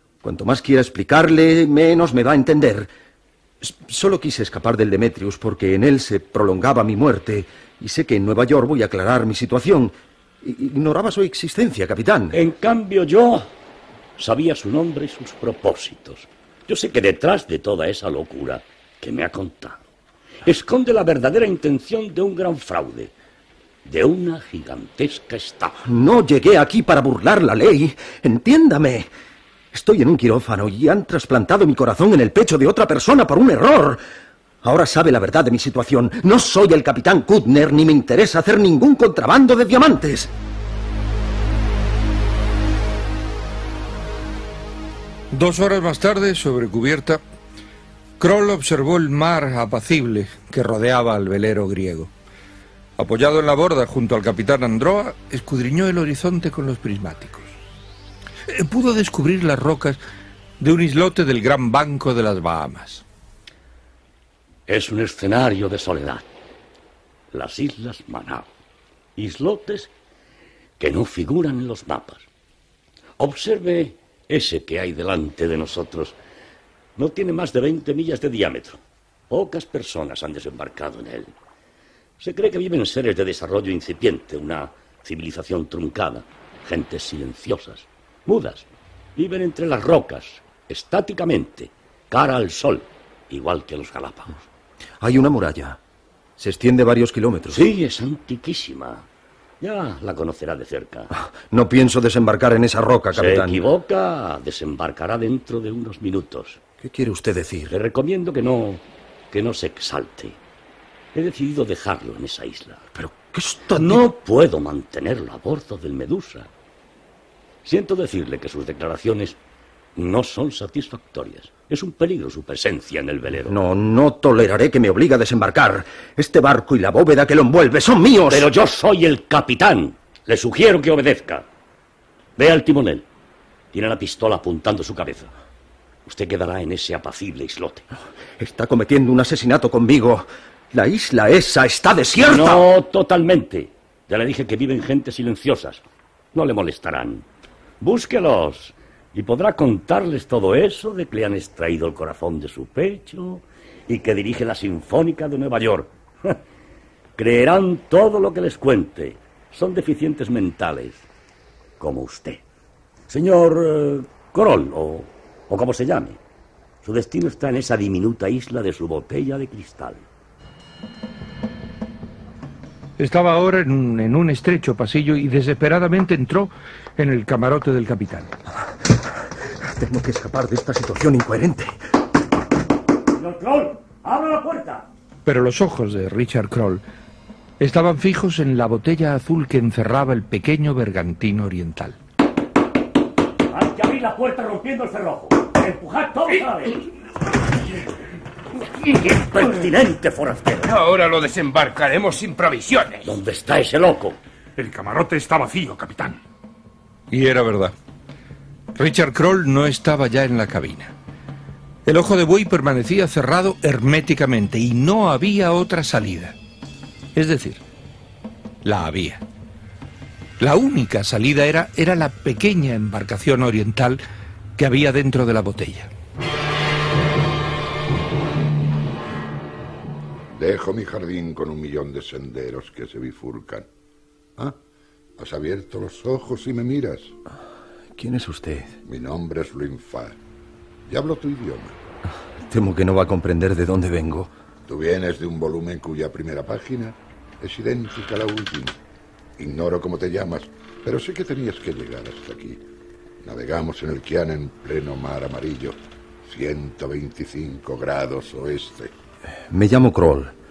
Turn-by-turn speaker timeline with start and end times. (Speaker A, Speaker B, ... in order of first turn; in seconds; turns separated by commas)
Speaker A: 0.2-2.9, Speaker A: 3.6-12.4, Speaker B: 12.3-13.5, Speaker B: 14.2-19.8, Speaker B: 20.4-23.1, Speaker B: 23.8-25.8, Speaker A: 25.8-29.1, Speaker A: 29.7-34.0, Speaker A: 34.6-40.3, Speaker C: 45.3-47.2, Speaker C: 48.2-52.1, Speaker C: 53.0-57.5, Speaker C: 58.5-60.0, Speaker C: 60.6-63.0, Speaker B: 64.7-66.2, Speaker B: 67.3-68.5, Speaker B: 69.2-69.9, Speaker B: 70.8-72.2, Speaker B: 73.2-76.1, Speaker B: 77.0-81.3, Speaker B: 82.2-94.4, Speaker A: 95.0-95.8, Speaker A: 96.4-97.6, Speaker B: 97.5-99.1, Speaker B: 99.6-101.1, Speaker A: 101.1-103.6, Speaker B: 103.1-106.6, Speaker A: 106.8-107.7, Speaker B: 107.7-110.4, Speaker B: 111.1-112.8, Speaker A: 112.9-114.0, Speaker B: 113.7-116.5, Speaker B: 117.6-119.4, Speaker B: 120.0-123.5, Speaker A: 123.5-128.5, Speaker B: 128.3-131.5, Speaker B: 132.4-133.0, Speaker B: 133.7-135.3, Speaker B: 136.1-137.9, Speaker A: 138.4-142.7, Speaker B: 142.2-145.8, Speaker B: 146.3-147.2, Speaker B: 147.8-156.4, Speaker B: 157.2-161.1, Speaker B: 161.8-162.4, Speaker B: 163.1-166.2, Speaker B: 166.8-170.0, Speaker C: 173.0-178.3, Speaker A: 179.4-181.8, Speaker B: 183.1-184.9, Speaker C: 185.2-186.8, Speaker C: 187.6-192.0, Speaker B: 193.5-196.8, Speaker B: 198.8-200.7, Speaker D: 200.7-203.1, Speaker E: 201.2-202.3, Speaker B: 203.0-204.2, Speaker E: 204.6-206.2, Speaker C: 207.1-207.7, Speaker C: 208.8-210.9, Speaker C: 211.8-216.3, Speaker C: 217.1-217.6, Speaker C: 218.6-219.2, Speaker C: 220.4-224.0, Speaker C: 224.6-225.9, Speaker F: 230.3-233.7, Speaker F: 235.2-237.1, Speaker A: 237.9-238.8, Speaker F: 238.8-240.2, Speaker F: 240.9-241.8, Speaker A: 242.3-244.3, Speaker F: 244.7-248.8, Speaker F: 249.4-252.6, Speaker F: 253.2-258.9, Speaker A: 259.5-260.3